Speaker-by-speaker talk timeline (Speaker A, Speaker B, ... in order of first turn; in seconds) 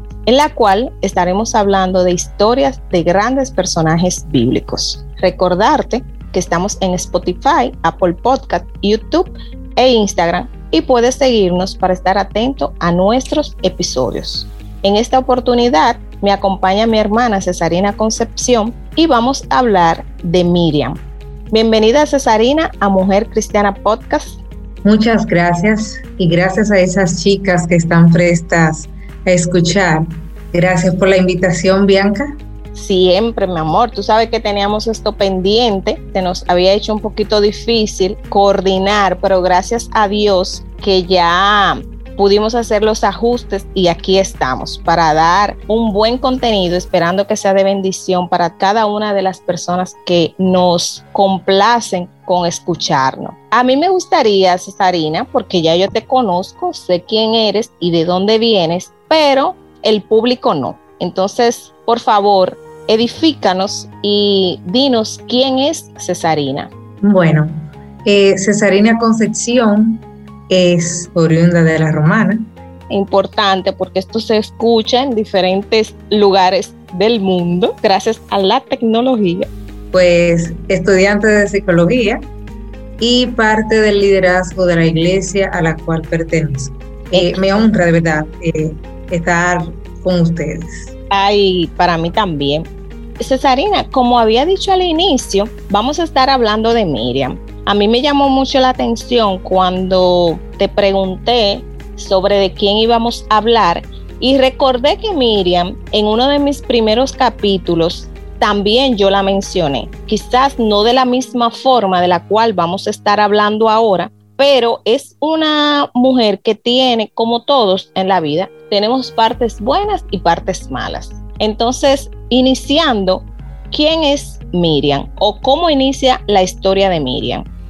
Speaker A: 0.3-21.0, 21.5-24.4, 32.7-66.7, 72.9-79.5, 87.1-87.7, 91.1-92.7, 93.2-127.5
Speaker B: 24.8-32.3, 67.0-67.5, 68.0-72.4, 79.9-82.2, 83.0-90.9